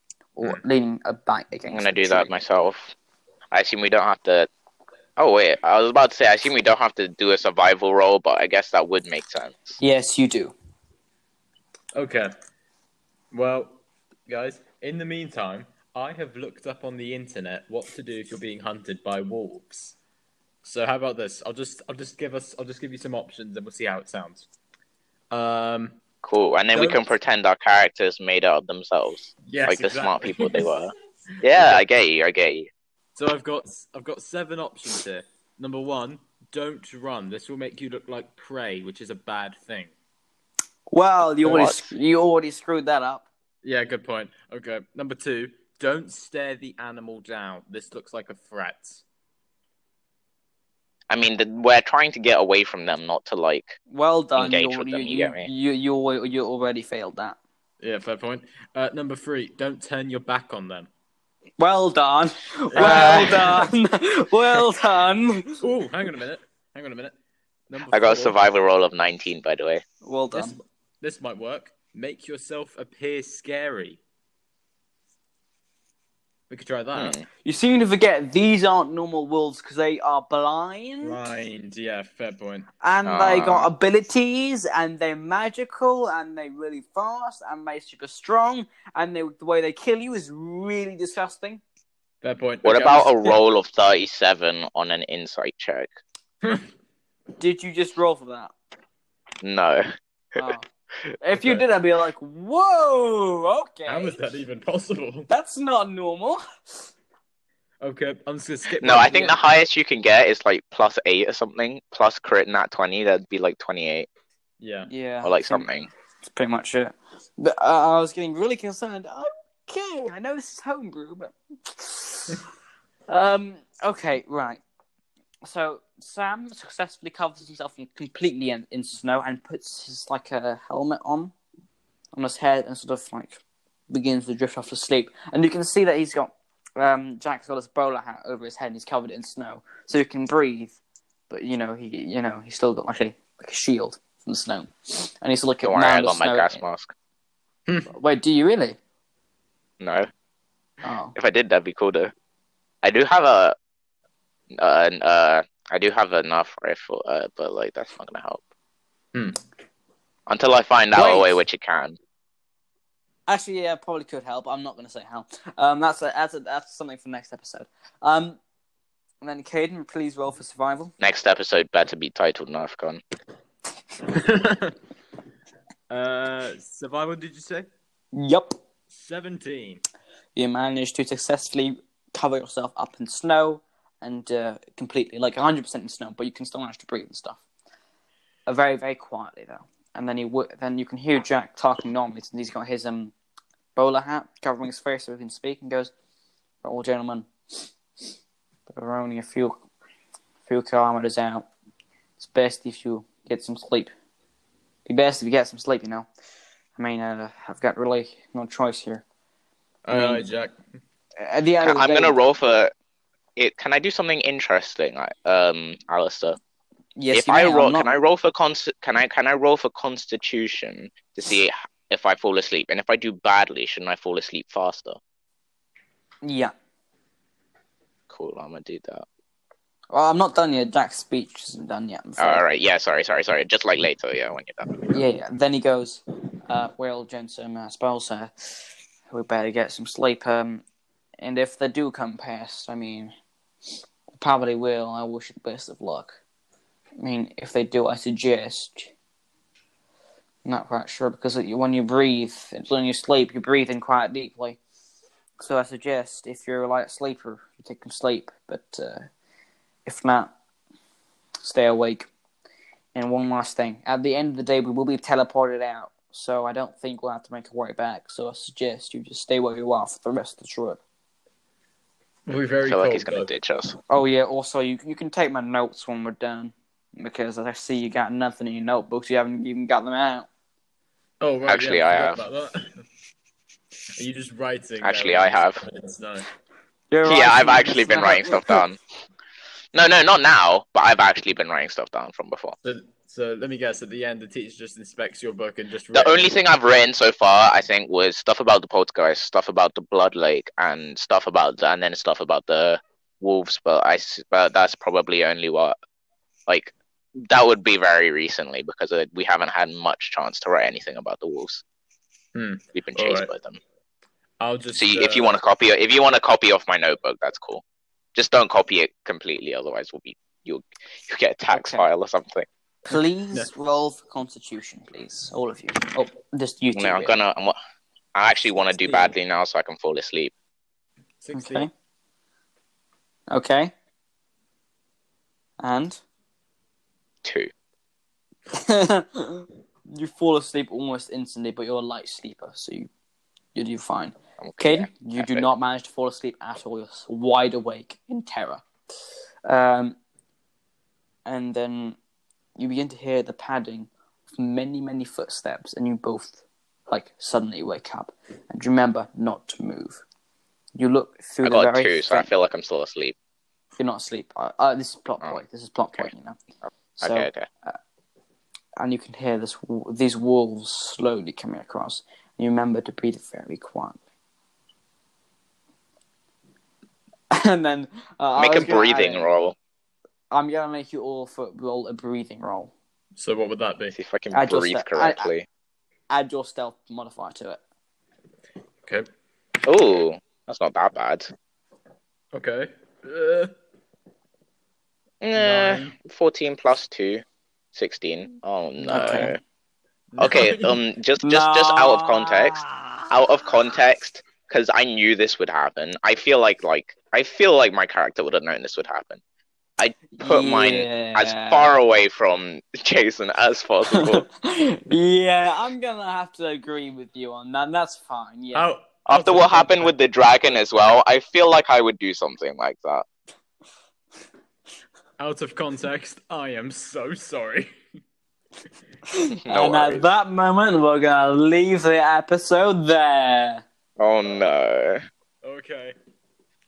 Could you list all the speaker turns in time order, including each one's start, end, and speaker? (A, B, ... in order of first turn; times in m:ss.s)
0:00.4-0:02.3 A
0:01.7-0:02.9 B
0:03.5-0:04.5 B
0:05.2-0:09.8 B
0:09.8-0:10.5 A
0:11.9-0:12.3 C
0:13.3-0:19.9 C
0:20.6-0:24.5 C
0:25.3-0:26.0 C
0:26.2-0:32.7 B
0:26.7-0:27.0 C
0:29.4-0:30.8 C
0:31.4-0:31.8 C
0:33.2-0:39.9 C
0:40.9-0:43.2 A
0:41.4-0:41.7 C
0:41.5-0:41.9 B
0:43.6-0:49.0 C
0:51.1-0:53.8 B
0:53.9-0:57.4 A
0:54.4-0:55.5 B
0:57.8-1:00.9 C
1:01.6-1:05.6 A
1:02.7-1:03.7 C
1:02.8-1:03.6 B
1:05.6-1:07.1 C
1:07.7-1:08.4 C
1:07.9-1:09.8 B
1:10.0-1:10.6 A
1:10.3-1:14.0 C
1:16.5-1:17.2 C
1:16.9-1:17.2 B
1:17.4-1:21.2 A
1:21.0-1:22.7 C
1:22.8-1:31.6 A
1:23.0-1:23.7 B
1:32.2-1:33.4 C
1:32.6-1:35.9 B
1:37.4-1:38.5 A
1:39.4-1:39.8 B
1:40.4-1:40.7 A
1:41.2-1:44.2 A
1:41.4-1:41.6 C
1:43.9-1:45.3 C
1:45.3-1:46.8 A
1:47.8-1:49.4 C
1:48.8-1:54.1 B
1:54.6-1:54.9 C
1:54.9-1:55.7 A
1:55.2-1:55.9 B
1:56.3-2:02.4 A
2:03.1-2:04.6 A
2:05.4-2:11.3 A
2:12.1-2:20.8 A
2:21.3-2:26.6 A
2:25.6-2:26.9 B
2:27.9-2:28.8 A
2:29.8-2:30.1 B
2:30.8-2:31.1 A
2:31.1-2:32.1 B
2:32.8-2:33.5 B
2:34.6-2:38.4 B
2:39.1-2:39.4 C
2:40.3-2:42.0 B
2:40.9-2:41.4 A
2:43.3-2:48.4 A
2:49.2-2:50.9 A
2:51.0-2:53.0 B
2:54.1-2:54.8 C
2:55.9-2:57.7 C
2:58.1-2:58.5 A
2:58.9-2:59.8 C
3:00.4-3:07.4 A
3:08.5-3:13.1 A
3:13.8-3:15.9 A
3:16.6-3:17.7 A
3:18.7-3:19.6 A
3:20.4-3:21.5 A
3:22.2-3:23.9 A
3:24.8-3:26.1 A
3:26.8-3:29.0 A
3:29.8-3:30.6 C
3:29.9-3:30.2 A
3:31.2-3:32.2 A
3:31.6-3:32.7 B
3:33.4-3:36.4 B
3:37.0-3:38.0 A
3:37.1-3:45.0 B
3:46.2-3:46.5 A
3:48.1-3:49.0 B
3:49.9-3:52.4 A
3:52.2-3:54.7 B
3:54.9-4:00.6 A
4:01.2-4:03.1 A
4:04.1-4:06.2 A
4:07.0-4:08.9 A
4:10.4-4:14.6 A
4:15.4-4:19.1 A
4:19.8-4:20.3 A
4:21.4-4:22.1 A
4:22.9-4:30.8 A
4:32.3-4:33.3 C
4:32.6-4:33.8 B
4:33.9-4:40.3 A
4:41.2-4:42.7 C
4:41.5-4:42.2 B
4:44.0-4:46.3 C
4:44.8-4:45.6 B
4:46.9-4:48.6 A
4:47.0-4:48.8 B
4:49.7-4:52.5 B
4:52.6-4:56.4 C
4:55.9-5:05.8 B
5:06.5-5:11.6 B
5:12.3-5:13.3 C
5:12.7-5:13.6 B
5:14.4-5:15.3 C
5:14.8-5:17.6 B
5:18.1-5:22.5 B
5:21.5-5:21.9 A
5:22.9-5:27.2 A
5:22.9-5:23.5 C
5:26.7-5:27.6 B
5:28.1-5:30.3 B
5:28.8-5:29.1 C
5:31.2-5:31.7 C
5:31.3-5:31.7 A
5:33.3-5:33.7 A
5:35.6-5:36.0 A
5:37.2-5:37.5 B
5:38.5-5:42.9 A
5:43.5-5:48.6 A
5:44.4-5:45.5 B
5:49.4-5:50.0 A
5:51.2-5:52.0 A
5:52.6-6:00.0 A
6:00.8-6:02.3 A
6:01.4-6:03.1 B
6:03.8-6:06.4 A
6:07.0-6:07.8 A
6:07.0-6:07.4 B
6:08.8-6:14.0 A
6:17.3-6:19.3 A
6:18.4-6:19.5 B
6:20.3-6:22.7 A
6:23.2-6:24.0 C
6:23.9-6:25.4 B
6:24.3-6:25.3 A
6:26.1-6:27.6 A
6:29.6-6:31.3 B
6:32.3-6:33.5 C
6:35.2-6:37.2 B
6:35.4-6:35.9 C
6:37.7-6:39.4 B
6:38.8-6:39.3 C
6:38.9-6:39.3 A
6:40.1-6:40.8 C
6:40.2-6:49.2 B
6:41.2-6:43.1 A
6:49.8-6:54.3 B
6:50.1-6:51.7 A
6:53.9-6:58.7 A
6:58.5-6:59.9 C
6:59.1-7:03.0 B
7:05.2-7:07.7 C
7:09.1-7:13.6 A
7:09.5-7:10.1 B
7:14.0-7:15.0 B
7:15.4-7:15.9 C